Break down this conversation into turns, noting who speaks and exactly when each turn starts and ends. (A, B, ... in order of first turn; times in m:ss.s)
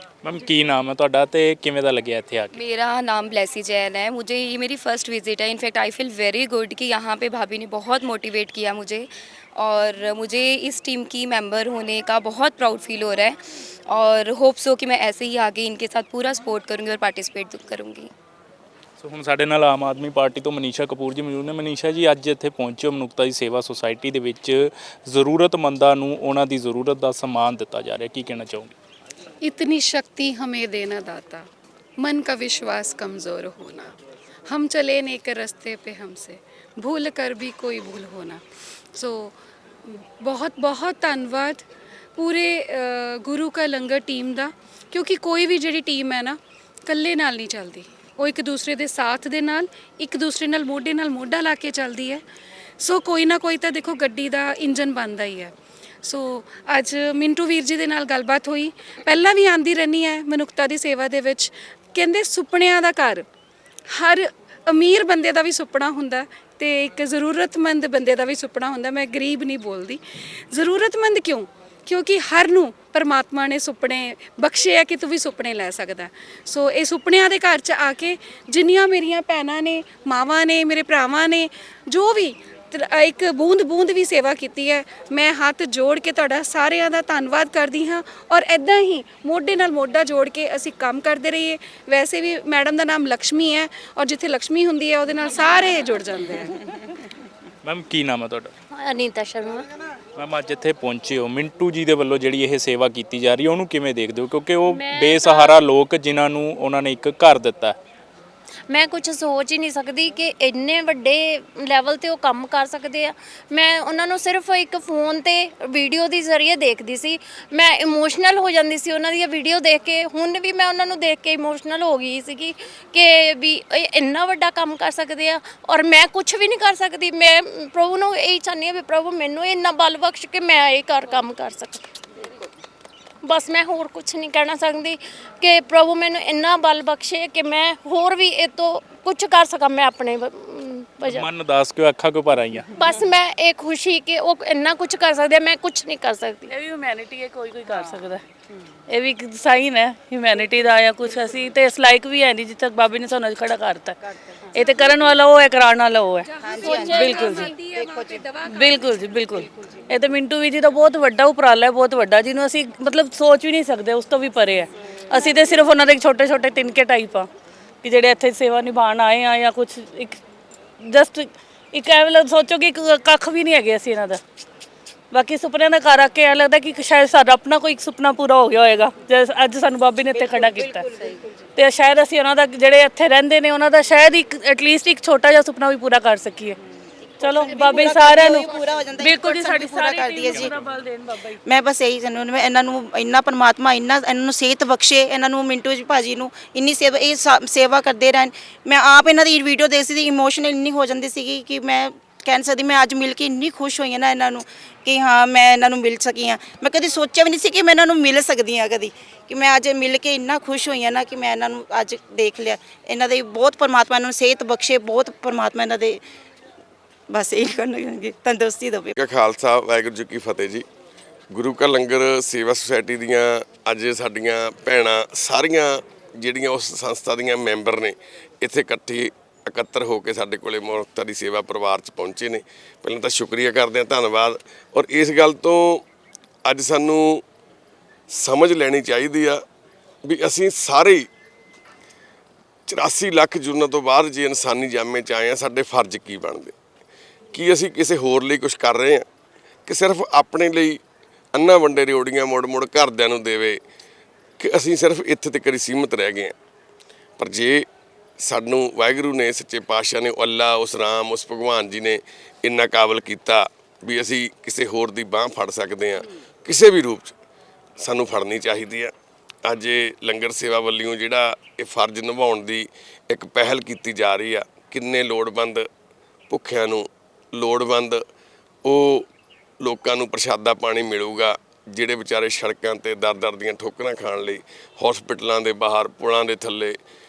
0:00.2-0:02.5 A
0:02.5-0:13.4 B
0:13.9-0:18.1 B
0:19.0-0:28.7 A
0:29.4-0:31.5 C
0:32.0-0:33.9 C
0:34.5-0:38.4 C
0:38.9-0:39.3 C
0:39.9-0:41.6 C
0:42.2-0:52.2 C
0:52.8-0:55.5 C
0:56.0-1:03.2 C
1:03.9-1:36.5 C
1:37.6-1:38.5 A
1:38.7-1:39.6 D
1:40.2-1:47.8 A
1:44.7-1:45.6 D
1:48.7-2:11.9 D
2:13.2-2:21.3 D
2:21.0-2:22.7 A
2:22.8-2:26.5 D
2:26.5-2:28.2 E
2:28.9-2:37.5 E
2:34.6-2:35.0 C
2:36.3-2:39.4 C
2:36.4-2:38.2 F
2:38.4-2:47.3 E
2:47.8-2:50.2 E
2:50.8-2:54.2 E
2:55.1-3:00.8 E
3:00.1-3:01.3 F
3:01.6-3:06.6 E
3:07.2-3:11.4 E
3:07.2-3:10.5 F
3:11.4-3:36.0 F
3:37.1-3:38.9 F
3:39.0-3:40.6 G
3:41.3-3:55.8 G
3:56.4-3:57.2 G
3:58.1-3:59.4 G
4:00.0-4:01.1 G
4:02.7-4:06.5 G
4:07.3-4:09.0 G
4:09.7-4:10.8 G
4:11.3-4:13.6 G
4:14.4-4:16.3 G
4:17.2-4:17.6 G
4:18.2-4:27.1 G
4:27.8-4:28.9 G
4:29.4-4:35.7 G
4:36.3-4:38.0 G
4:38.6-4:39.0 G
4:39.6-4:46.8 G